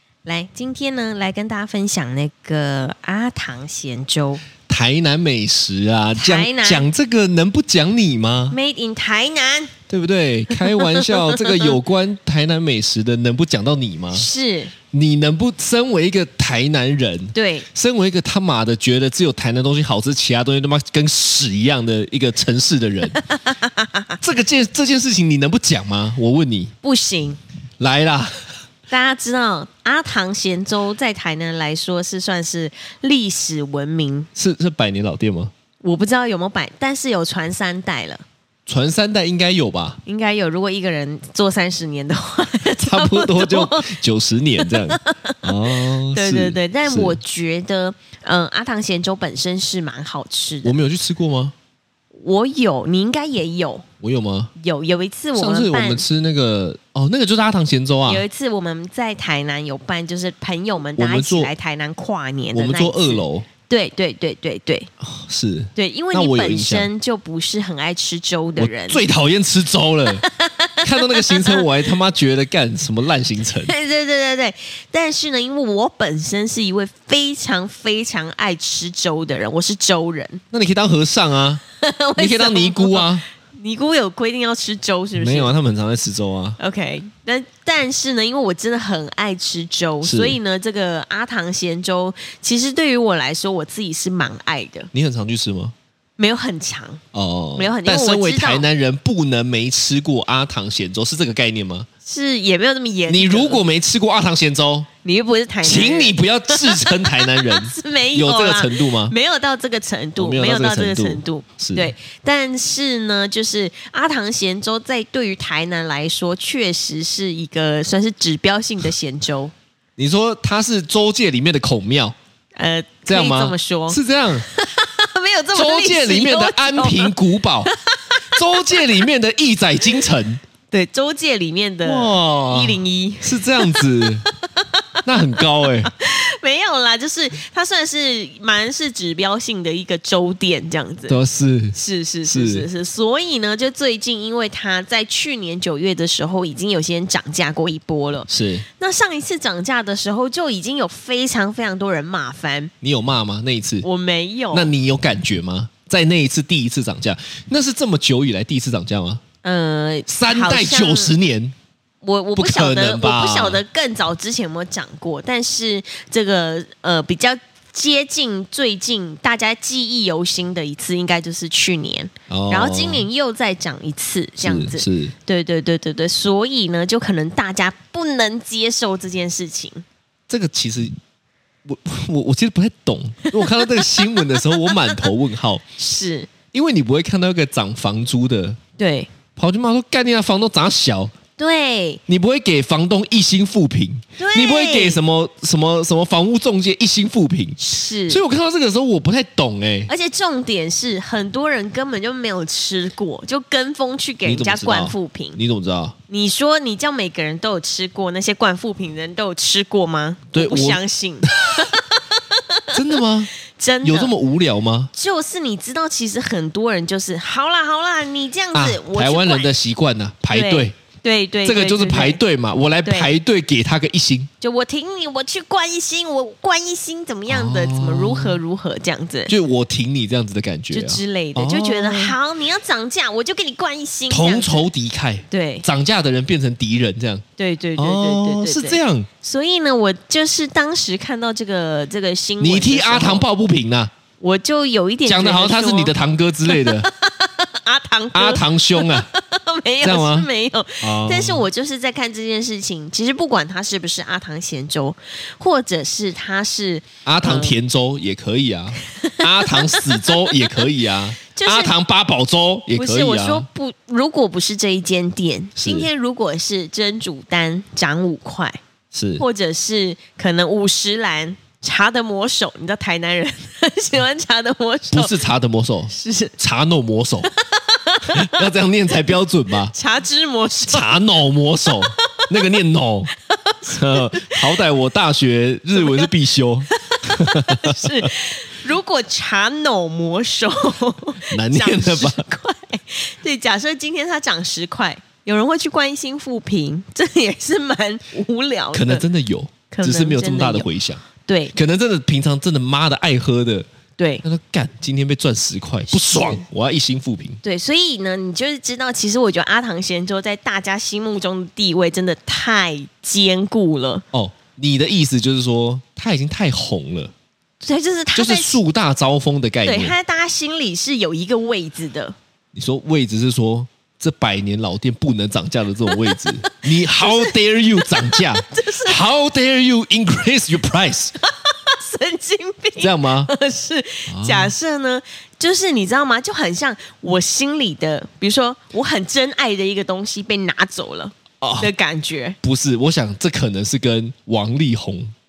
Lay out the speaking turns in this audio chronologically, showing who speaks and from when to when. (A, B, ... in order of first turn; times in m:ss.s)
0:00.2-0:04.4 A
0:04.7-0:08.6 B
0:06.2-0:06.9 A
0:08.5-0:09.7 A
0:09.9-0:14.3 B
0:10.5-0:11.7 A
0:14.1-0:14.7 A
0:14.9-0:23.2 B
0:17.3-0:17.7 A
0:23.3-0:24.2 A
0:24.2-0:26.7 B
0:26.8-0:27.4 A
0:27.8-0:28.4 B
0:28.9-0:34.3 A
0:34.4-0:35.5 B
0:35.8-0:38.2 A
0:38.7-0:40.0 B
0:40.0-0:43.9 A
0:42.8-0:47.2 B
0:44.6-0:50.8 A
0:50.6-0:51.6 B
0:52.2-0:53.8 A
0:54.0-0:54.5 B
0:54.6-0:56.0 A
0:55.4-0:58.2 B
0:58.1-1:04.9 A
1:01.0-1:01.5 B
1:02.5-1:03.5 B
1:05.0-1:06.9 B
1:05.8-1:09.0 A
1:08.6-1:10.2 B
1:10.1-1:11.6 A
1:10.8-1:13.7 B
1:13.6-1:20.4 A
1:20.5-1:21.6 B
1:21.7-1:25.5 A
1:22.2-1:23.2 B
1:25.2-1:26.6 B
1:26.6-1:34.9 A
1:30.0-1:30.4 B
1:34.9-1:35.8 B
1:36.2-1:37.0 A
1:37.1-1:41.9 B
1:37.6-1:38.6 A
1:42.1-1:43.6 A
1:43.1-1:44.9 B
1:45.0-1:59.5 A
1:45.6-1:49.1 B
1:50.2-1:51.9 B
2:00.0-2:02.2 B
2:02.6-2:09.0 A
2:03.1-2:04.5 B
2:05.5-2:07.7 B
2:08.3-2:10.4 B
2:10.7-2:21.2 A
2:11.8-2:14.3 B
2:15.0-2:15.9 B
2:21.1-2:22.7 B
2:21.8-2:32.7 A
2:28.3-2:28.7 B
2:32.8-2:33.9 B
2:33.8-2:34.7 A
2:34.5-2:39.2 B
2:39.4-2:41.2 A
2:40.1-2:41.6 B
2:42.0-2:59.8 A
2:42.4-2:43.6 B
2:52.3-2:53.1 B
2:54.4-2:55.2 B
3:00.3-3:01.0 B
3:01.6-3:05.6 B
3:05.8-3:06.3 A
3:06.5-3:08.6 B
3:08.8-3:09.1 A
3:09.4-3:11.1 B
3:11.4-3:12.0 A
3:12.1-3:19.9 B
3:14.2-3:15.0 A
3:17.6-3:18.2 A
3:19.9-3:25.4 A
3:24.2-3:26.0 B
3:26.1-3:34.1 A
3:30.3-3:31.7 B
3:32.7-3:33.3 B
3:33.8-3:34.9 B
3:34.9-3:39.5 A
3:38.5-3:40.8 B
3:40.3-3:42.2 A
3:41.4-3:44.3 B
3:42.8-3:43.2 A
3:44.4-3:49.3 A
3:47.3-3:48.4 B
3:49.3-3:52.2 B
3:50.7-3:54.7 A
3:54.1-3:57.2 B
3:55.3-3:55.7 A
3:57.4-4:03.2 A
3:57.8-3:59.1 B
4:02.4-4:03.9 B
4:04.2-4:05.9 A
4:05.1-4:06.9 B
4:06.5-4:17.6 A
4:08.1-4:09.1 B
4:09.8-4:10.3 B
4:10.8-4:11.5 B
4:17.0-4:23.5 B
4:18.8-4:20.7 A
4:21.3-4:21.7 A
4:22.7-4:28.6 A
4:25.6-4:25.9 B
4:28.9-4:29.2 B
4:29.2-4:35.2 A
4:34.9-4:37.3 B
4:35.9-4:36.3 A
4:37.3-4:38.5 A
4:38.1-4:39.8 B
4:39.7-4:40.9 A
4:40.7-4:43.1 B
4:41.6-4:42.3 A
4:43.3-4:44.5 A
4:43.7-4:48.1 B
4:45.8-4:46.1 A
4:46.6-4:59.0 A
4:51.3-4:52.2 B
4:58.7-5:01.0 B
4:59.7-5:00.7 A
5:01.2-5:01.5 A
5:01.5-5:03.7 B
5:04.0-5:04.2 A
5:04.2-5:07.4 B
5:06.0-5:06.4 A
5:07.4-5:14.0 A
5:14.1-5:17.1 B
5:17.6-5:18.6 A
5:18.2-5:20.0 B
5:19.6-5:22.2 A
5:22.5-5:31.1 B
5:26.1-5:27.4 A
5:27.9-5:29.0 A
5:31.2-5:42.4 A
5:32.8-5:33.3 B
5:34.1-5:34.5 B
5:41.4-5:41.7 B
5:42.4-5:45.1 B